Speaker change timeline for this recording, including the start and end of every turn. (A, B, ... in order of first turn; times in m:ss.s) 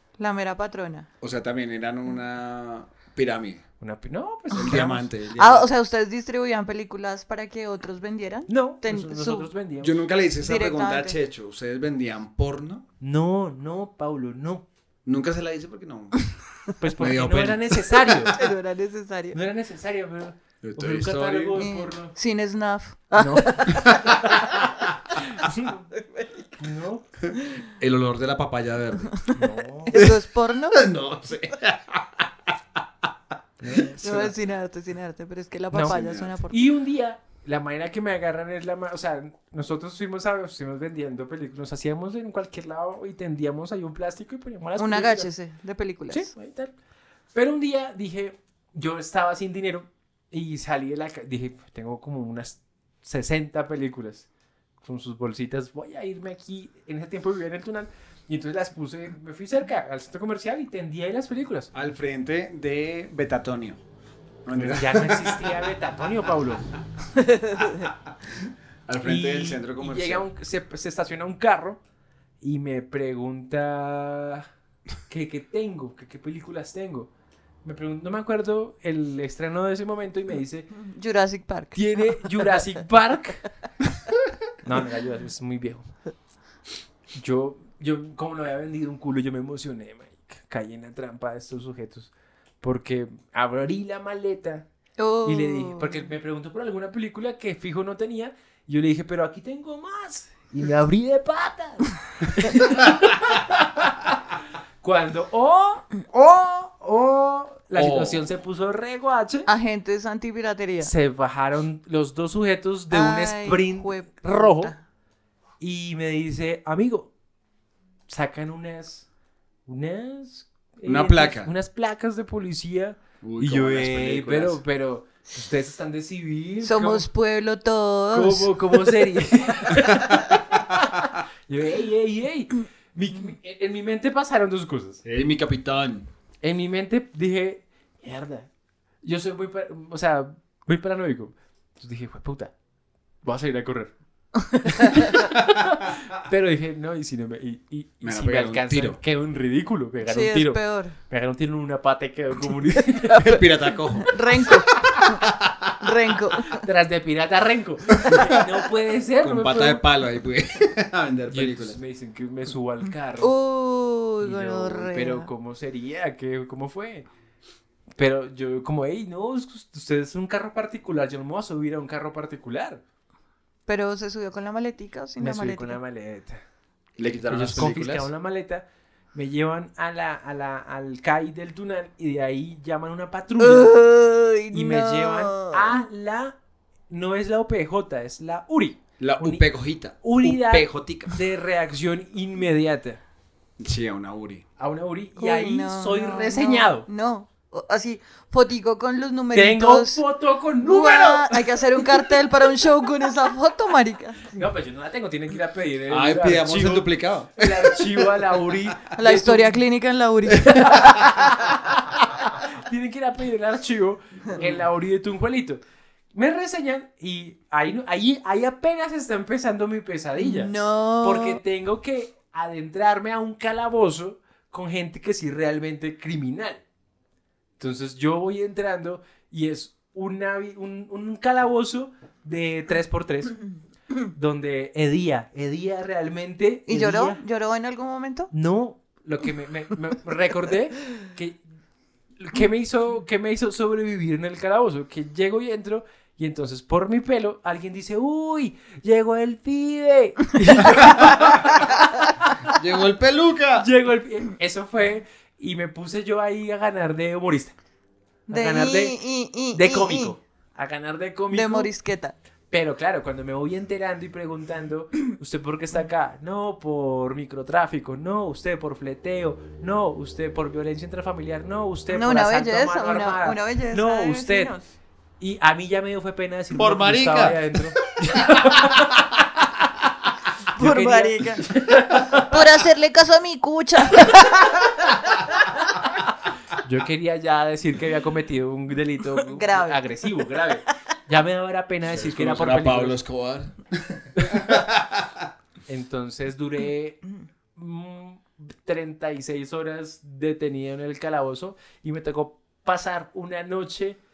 0:00.2-0:01.1 A
0:01.2-0:03.6 B
0:03.8-0:05.1 C
0:04.5-0:05.7 B
0:05.4-0:09.5 A
0:08.5-0:10.0 C
0:09.8-0:12.8 B
0:10.4-0:11.2 A
0:13.0-0:14.6 C
0:15.1-0:16.4 B
0:16.8-0:18.4 C
0:17.0-0:18.3 B
0:18.4-0:19.4 A
0:19.3-0:22.1 C
0:20.6-0:21.6 B
0:21.6-0:24.0 A
0:23.2-0:24.3 C
0:23.7-0:24.4 B
0:25.4-0:25.8 C
0:26.0-0:26.3 A
0:26.6-0:27.1 C
0:27.8-0:29.3 B
0:29.3-0:30.1 C
0:29.9-0:30.8 A
0:30.7-0:32.3 B
0:33.6-0:34.3 C
0:34.0-0:36.6 A
0:35.7-0:36.0 C
0:35.8-0:36.3 B
0:36.5-0:45.3 C
0:44.8-0:46.3 A
0:46.1-0:46.7 C
0:47.3-0:54.3 C
0:54.8-1:01.7 C
1:01.7-1:03.8 B
1:04.4-1:05.4 B
1:04.5-1:06.7 C
1:08.9-1:10.2 B
1:09.0-1:11.8 C
1:12.4-1:14.5 C
1:15.1-1:17.1 C
1:17.6-1:20.7 C
1:20.8-1:22.2 A
1:21.8-1:23.5 C
1:24.6-1:25.9 C
1:27.1-1:32.1 C
1:32.6-1:34.7 C
1:35.0-1:36.0 A
1:35.2-1:44.0 C
1:44.8-1:49.5 C
1:47.8-1:48.3 B
1:49.5-1:50.9 A
1:50.8-1:54.7 C
1:52.9-1:54.8 A
1:55.6-1:57.1 C
1:58.1-1:59.1 C
1:59.7-2:07.0 C
2:00.9-2:01.5 B
2:03.2-2:04.6 B
2:06.6-2:08.6 A
2:08.1-2:15.0 C
2:15.0-2:16.1 B
2:16.4-2:18.5 C
2:19.0-2:22.5 C
2:23.2-2:23.9 C
2:24.6-2:25.0 A
2:24.7-2:25.6 C
2:26.2-2:33.4 C
2:28.0-2:29.0 B
2:30.0-2:31.0 A
2:33.1-2:35.7 B
2:34.0-2:35.1 A
2:35.8-2:36.6 A
2:36.6-2:39.8 C
2:39.2-2:41.8 B
2:41.3-2:43.3 C
2:43.2-2:45.3 A
2:44.2-2:47.1 C
2:48.0-2:52.8 C
2:53.7-2:55.8 A
2:55.2-2:56.4 C
2:57.0-2:58.1 B
2:57.3-3:03.8 C
3:03.4-3:05.6 A
3:04.5-3:06.4 C
3:06.9-3:13.0 C
3:09.0-3:11.1 B
3:13.6-3:14.4 B
3:14.6-3:16.9 C
3:15.2-3:20.0 A
3:19.3-3:21.8 C
3:20.6-3:24.3 A
3:24.3-3:29.6 C
3:25.9-3:28.4 B
3:29.0-3:31.0 A
3:30.6-3:31.8 C
3:32.4-3:35.6 C
3:36.1-3:46.6 C
3:40.2-3:41.4 A
3:47.6-3:53.5 C
3:54.1-3:57.2 C
3:56.7-3:58.3 A
3:58.3-4:01.4 C
4:02.2-4:12.1 C
4:11.0-4:11.5 B
4:12.5-4:13.7 B
4:13.6-4:17.6 C
4:18.3-4:20.1 A
4:18.3-4:19.0 C
4:19.5-4:21.7 C
4:21.3-4:22.1 A
4:22.5-4:34.5 C
4:31.9-4:34.6 A
4:35.2-4:38.8 C
4:36.5-4:37.4 B
4:38.0-4:38.7 B
4:40.6-4:42.3 C
4:40.6-4:41.4 A
4:42.3-4:44.7 A
4:46.6-4:53.0 C
4:49.2-4:49.8 A
4:51.9-4:55.0 B
4:55.7-4:57.0 C
4:57.6-5:04.0 C